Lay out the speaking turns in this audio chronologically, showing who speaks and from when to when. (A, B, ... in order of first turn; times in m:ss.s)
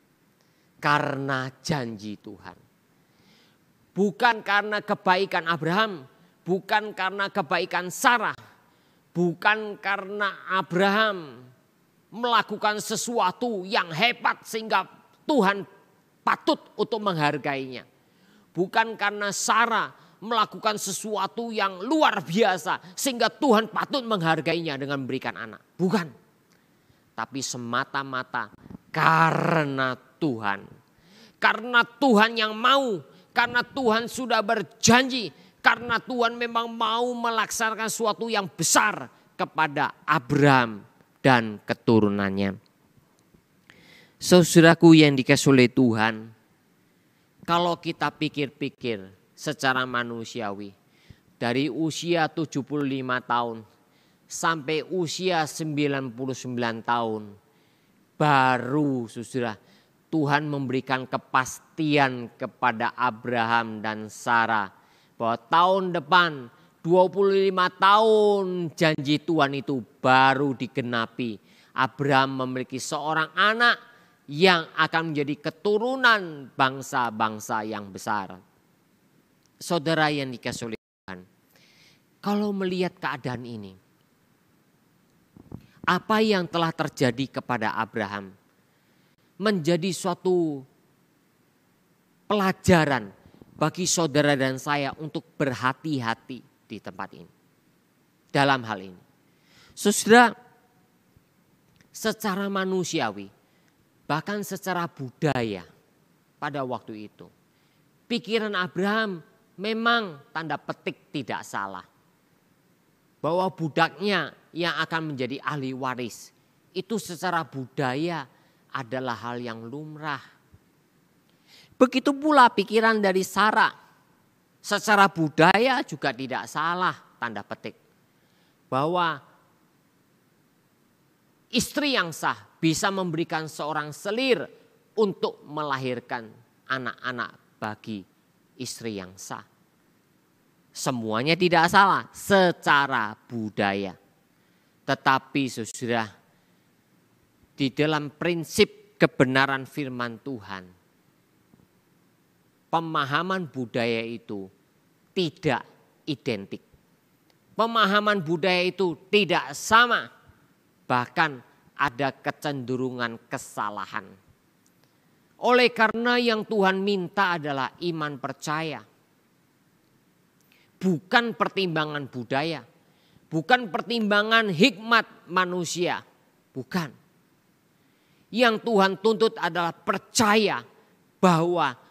0:00.8-0:02.6 A
0:04.0-0:08.4 A
0:09.2-0:11.4 A
0:12.1-0:15.7 A
0:16.2-0:17.8 A
0:18.6-0:26.1 A
0:27.2-0:30.6 A
0:31.4-0:42.6 A
0:44.2-0:46.3 A
0:47.5-0:50.7 A
0:51.4-0:53.6 A
0:54.3-0:57.3 A
0:58.2-0:59.6 A
1:00.1-1:04.7 A
1:05.2-1:13.8 A
1:14.3-1:18.4 A
1:19.6-1:21.2 A
1:22.2-1:23.8 A
1:25.9-1:28.3 A
1:29.4-1:30.6 A
1:32.3-1:33.1 A
1:33.6-1:37.3 A
1:38.3-1:39.0 A
1:39.8-1:40.3 A
1:42.0-1:43.3 A
1:44.1-1:45.7 A
1:46.4-1:47.3 A
1:48.1-1:51.9 A
1:53.2-1:58.2 A
1:58.8-2:00.2 A
2:01.8-2:03.7 A
2:04.6-2:07.8 A
2:08.7-2:09.2 A
2:11.5-2:14.5 A
2:15.0-2:18.0 A
2:18.6-2:19.4 A
2:20.8-2:24.0 A
2:24.9-2:26.1 A
2:27.6-2:30.7 A
2:32.7-2:34.5 A
2:35.2-2:36.6 A
2:37.6-2:40.1 A
2:40.9-2:44.1 A
2:45.4-2:48.8 A
2:50.8-2:52.6 A
2:53.3-2:56.0 A
2:56.6-2:56.9 A
2:58.4-3:00.6 A
3:01.2-3:01.7 A